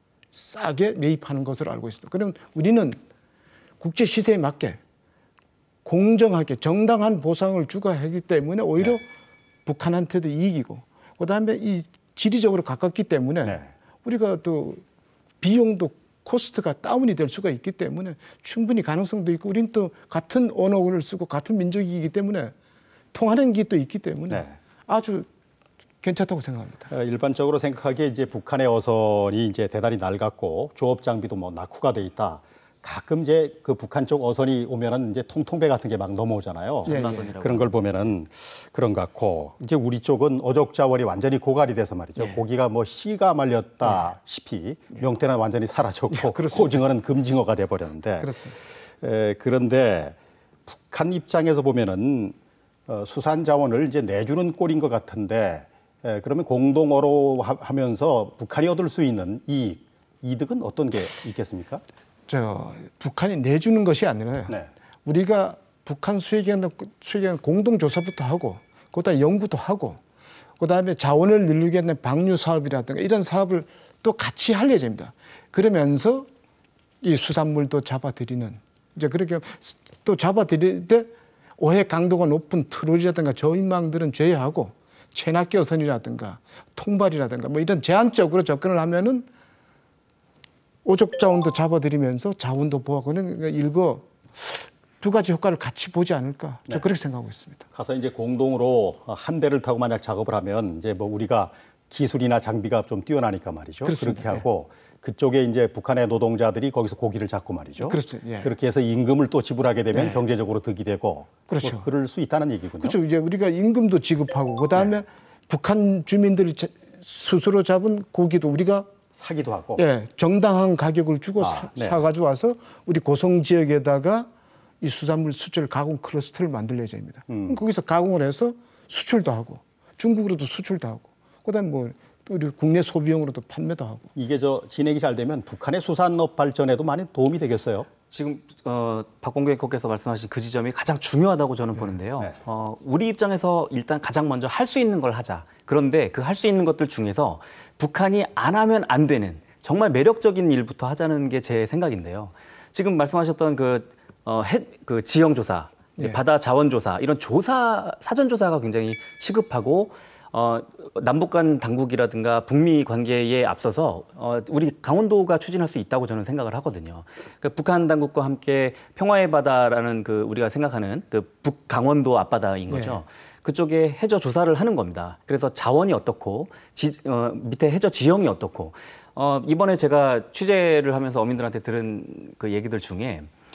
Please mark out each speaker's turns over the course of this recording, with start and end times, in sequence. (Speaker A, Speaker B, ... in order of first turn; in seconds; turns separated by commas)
Speaker A: 0.3-3.0, Speaker A: 3.8-4.8, Speaker A: 5.8-9.1, Speaker A: 9.7-14.8, Speaker A: 15.4-22.5, Speaker A: 23.1-25.3, Speaker B: 24.3-24.6, Speaker A: 26.0-26.9, Speaker B: 26.9-50.2, Speaker A: 36.9-37.3, Speaker C: 36.9-37.8, Speaker A: 46.1-46.8, Speaker A: 48.2-48.6, Speaker B: 50.7-52.4, Speaker B: 52.9-61.8, Speaker A: 62.3-70.0, Speaker A: 70.6-76.3, Speaker A: 77.0-89.3, Speaker A: 90.8-97.7, Speaker B: 97.7-113.0, Speaker A: 103.8-104.4, Speaker A: 107.8-108.5, Speaker A: 109.9-110.2, Speaker A: 111.5-111.9, Speaker A: 112.8-118.9, Speaker B: 119.1-119.8, Speaker A: 119.8-124.3, Speaker B: 121.4-122.0, Speaker A: 124.8-134.1, Speaker B: 127.3-127.6, Speaker B: 134.2-137.9, Speaker C: 138.1-183.3, Speaker A: 172.7-173.0